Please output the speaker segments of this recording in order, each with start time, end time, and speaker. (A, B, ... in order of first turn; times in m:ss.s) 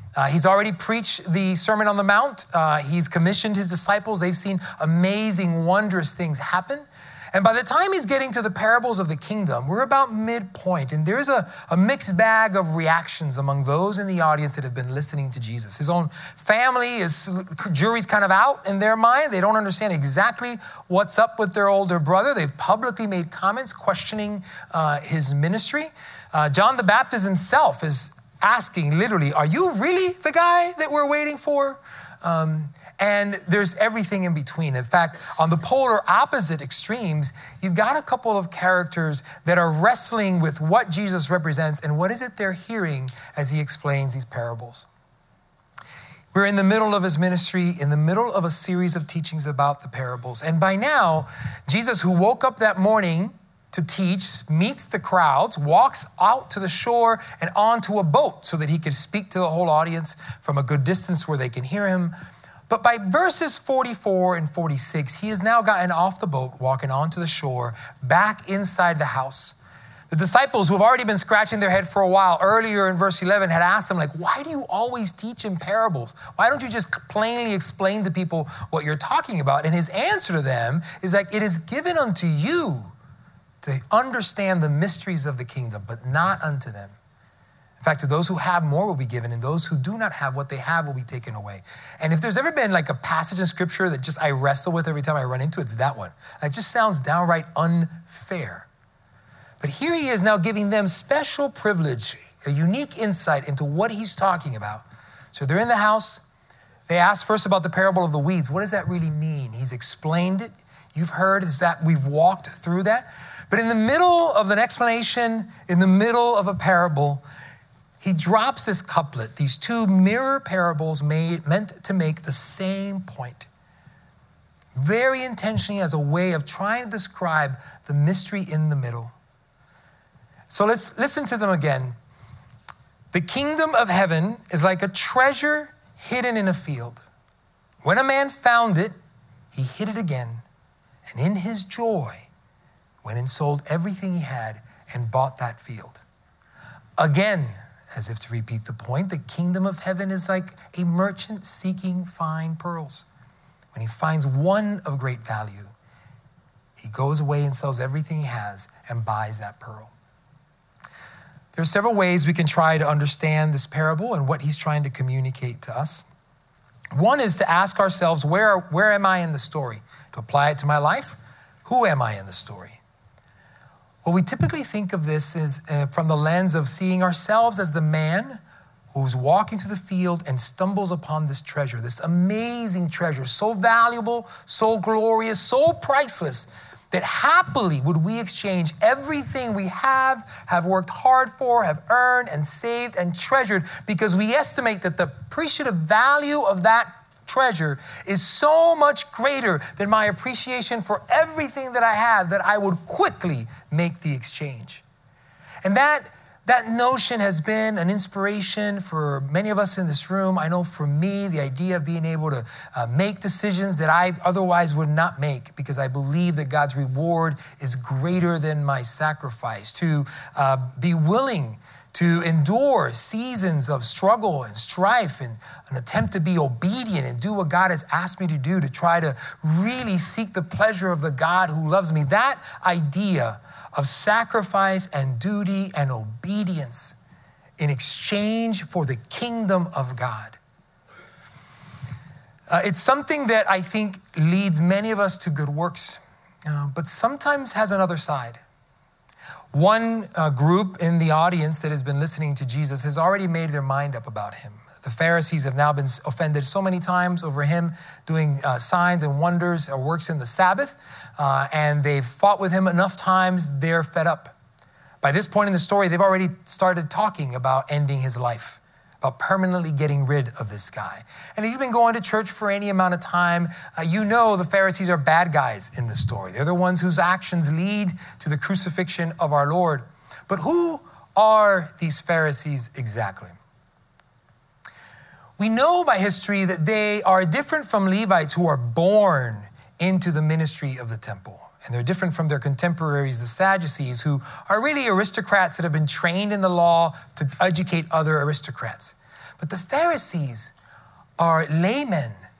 0:00.2-0:44.9 A
0:46.3-1:02.1 A
1:02.7-1:09.6 A
1:10.1-1:22.9 A
1:23.6-1:27.0 A
1:27.8-1:38.7 A
1:39.6-1:46.2 A
1:46.9-1:57.2 A
1:58.0-2:03.5 A
2:04.8-2:09.1 A
2:10.5-2:12.0 A
2:13.1-2:17.0 A
2:17.8-2:18.9 A
2:19.5-2:20.4 A
2:21.1-2:22.3 A
2:23.0-2:26.0 A
2:27.0-2:33.1 A
2:33.7-2:35.7 A
2:36.8-2:39.9 A
2:41.6-2:46.1 A
2:46.9-2:52.8 A
2:54.0-2:58.4 A
2:58.9-3:24.8 A
3:25.6-3:57.0 A
3:57.6-4:00.4 A
4:02.5-4:08.4 A
4:09.5-4:24.3 A
4:25.0-4:43.3 A
4:45.4-5:00.5 A
5:01.2-5:02.2 A